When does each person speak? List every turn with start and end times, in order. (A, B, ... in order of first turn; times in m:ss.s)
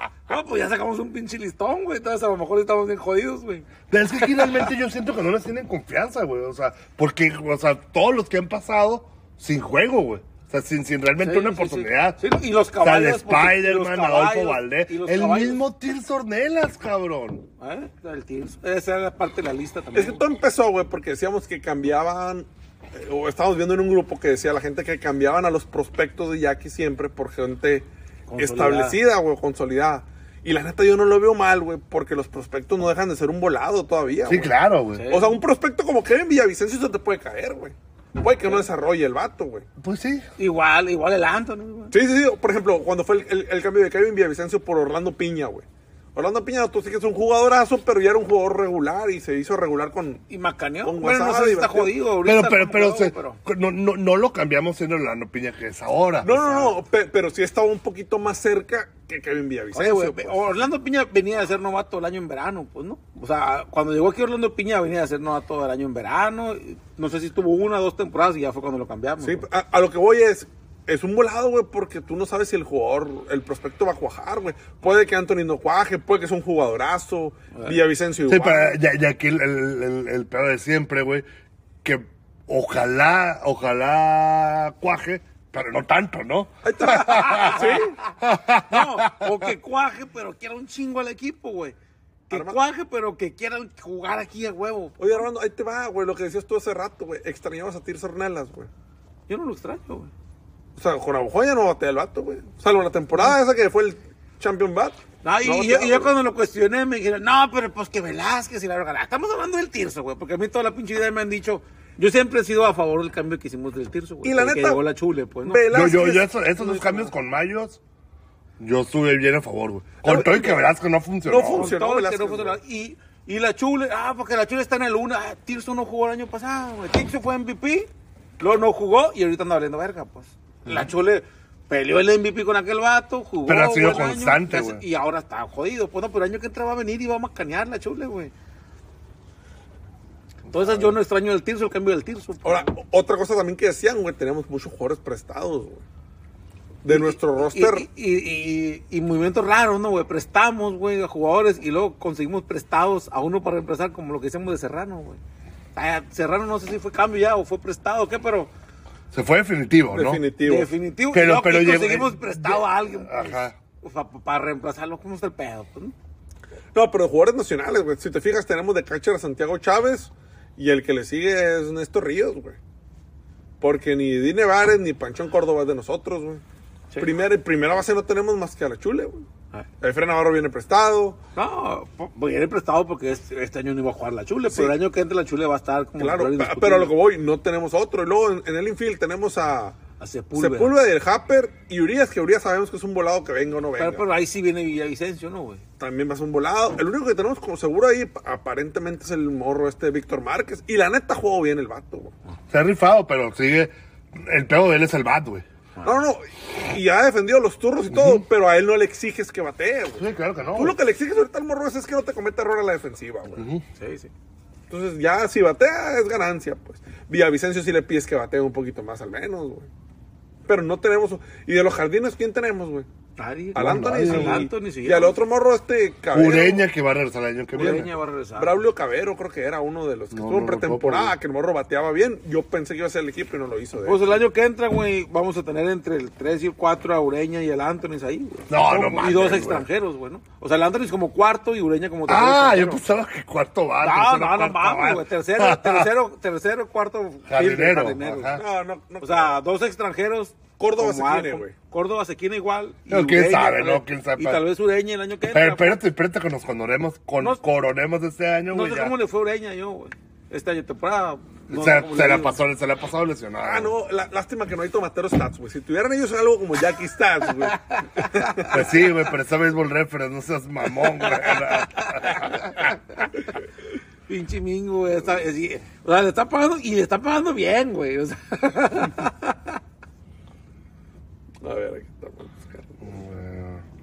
0:00.3-0:03.7 A
0:03.9-0:12.2 B
0:11.2-0:15.6 A
0:12.8-0:17.4 B
0:17.6-0:20.2 A
0:19.9-0:34.5 C
0:28.3-0:29.0 A
0:34.2-0:35.0 B
0:34.9-0:35.4 A
0:35.1-0:39.7 C
0:39.8-0:40.2 B
0:40.4-0:41.9 A
0:41.9-0:50.2 C
0:50.3-0:53.4 A
0:50.8-0:52.0 C
0:52.2-0:56.4 B
0:56.2-1:00.5 C
0:56.3-0:56.8 A
0:59.7-1:09.4 A
1:09.2-1:18.8 C
1:17.5-1:17.8 A
1:18.2-1:21.2 B
1:21.8-1:29.5 B
1:26.6-1:28.0 C
1:28.7-1:31.8 A
1:32.3-1:35.2 A
1:32.3-1:32.6 C
1:35.0-1:38.7 C
1:39.3-1:40.1 A
1:40.8-1:46.1 C
1:45.2-1:55.6 A
1:54.2-1:54.8 C
1:55.4-1:56.3 C
1:55.7-1:57.8 B
1:56.6-1:57.1 A
1:58.6-2:01.7 B
2:00.0-2:00.7 C
2:01.2-2:02.6 C
2:01.5-2:18.3 A
2:13.4-2:14.8 B
2:20.5-2:22.7 A
2:20.5-2:20.9 B
2:22.4-2:25.8 C
2:26.8-2:27.8 C
2:26.9-2:35.2 A
2:35.7-2:38.5 A
2:39.1-2:40.2 B
2:39.9-2:40.7 C
2:40.4-2:45.9 A
2:41.1-2:43.6 B
2:46.7-2:52.6 C
2:53.6-2:56.4 C
2:57.0-2:59.2 C
2:59.8-3:01.2 C
3:01.3-3:06.9 A
3:04.5-3:04.8 C
3:06.0-3:09.8 C
3:10.0-3:10.7 A
3:10.3-3:14.0 C
3:13.8-3:15.6 A
3:15.8-3:22.1 C
3:22.5-3:25.4 B
3:25.8-3:26.0 A
3:25.8-3:33.5 C
3:27.9-3:28.2 B
3:30.0-3:30.8 B
3:33.4-3:33.6 B
3:33.7-3:34.1 A
3:34.7-3:39.7 C
3:40.5-3:42.9 C
3:43.2-3:45.2 A
3:43.5-3:44.5 B
3:43.5-3:46.6 C
3:46.1-3:47.9 B
3:47.5-3:48.6 A
3:47.5-3:54.2 C
3:50.1-3:51.2 B
3:53.8-4:02.8 A
3:58.5-3:59.7 B
4:02.1-4:05.9 B
4:03.8-4:08.4 A
4:07.3-4:08.4 B
4:08.3-4:09.4 C
4:09.0-4:15.8 A
4:10.6-4:11.5 C
4:12.9-4:14.4 B
4:15.3-4:19.0 B
4:18.5-4:22.4 A
4:21.5-4:23.7 B
4:23.4-4:28.7 C
4:27.5-4:28.1 A
4:28.5-4:32.6 B
4:31.0-4:33.1 A
4:34.1-4:39.6 A
4:41.4-4:42.8 C
4:42.8-4:43.6 B